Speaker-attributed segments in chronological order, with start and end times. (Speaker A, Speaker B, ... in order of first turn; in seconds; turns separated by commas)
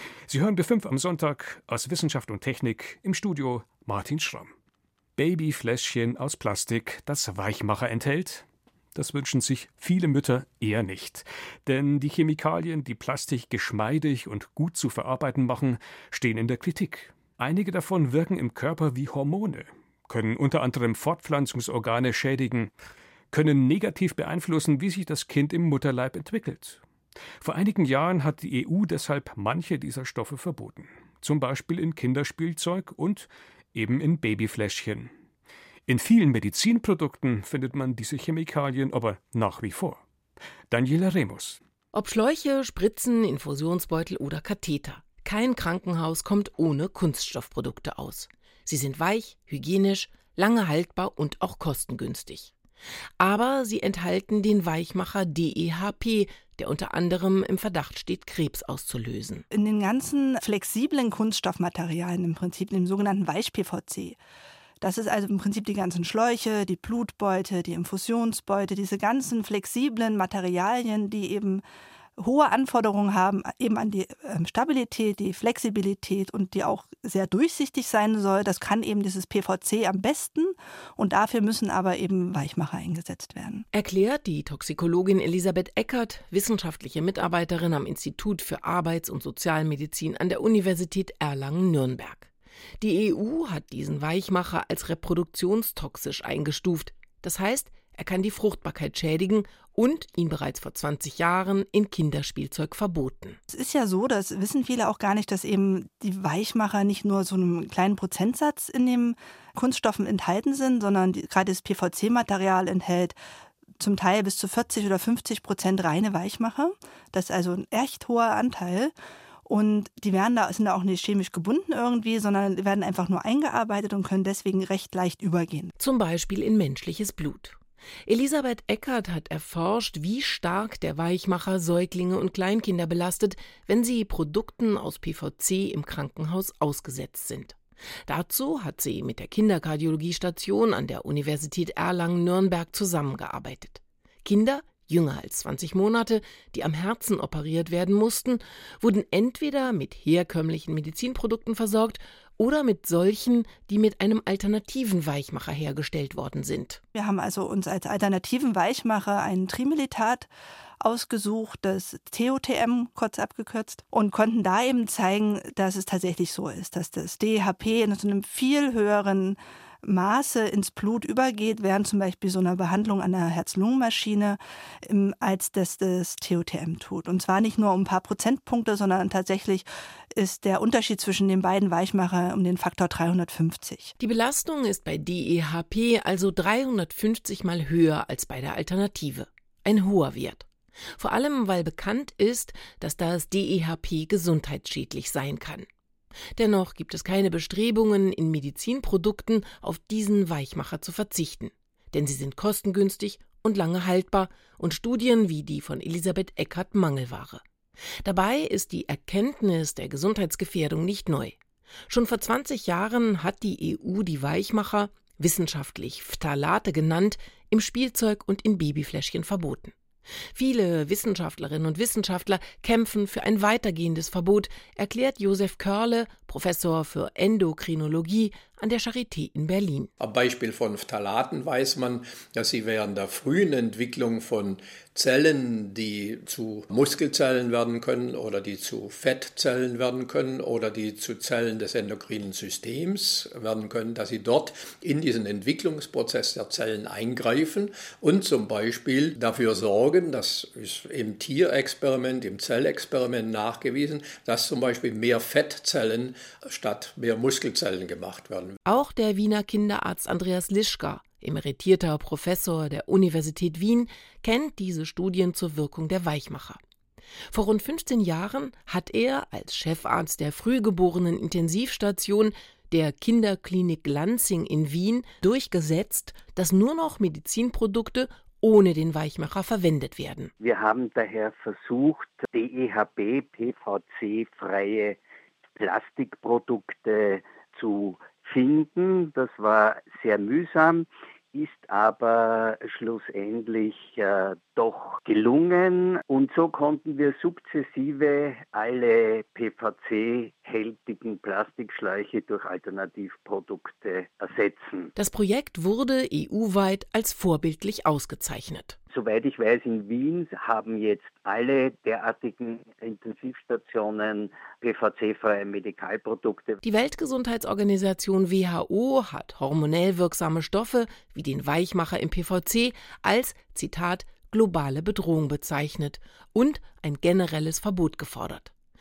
Speaker A: 0.3-4.5, Speaker A: 5.2-22.7, Speaker A: 23.3-26.8, Speaker A: 27.4-35.1, Speaker A: 35.9-40.0, Speaker A: 40.7-41.6, Speaker B: 41.9-52.5, Speaker B: 53.2-59.4, Speaker C: 59.5-64.2, Speaker C: 64.8-71.6, Speaker C: 72.2-83.6, Speaker B: 83.7-92.3, Speaker B: 92.8-103.4, Speaker C: 103.5-113.2, Speaker C: 113.8-118.9, Speaker C: 119.5-125.7, Speaker B: 125.8-156.8, Speaker C: 156.9-160.3, Speaker C: 160.8-183.9, Speaker B: 184.0-190.4, Speaker B: 191.0-195.7, Speaker B: 196.4-207.4, Speaker B: 208.0-211.4, Speaker B: 211.9-219.7, Speaker B: 220.3-229.9, Speaker D: 230.0-258.6, Speaker B: 258.6-266.6, Speaker B: 267.3-280.3, Speaker E: 280.4-285.0, Speaker E: 285.6-304.9, Speaker B: 305.0-308.8, Speaker E: 308.9-316.6, Speaker B: 316.6-328.5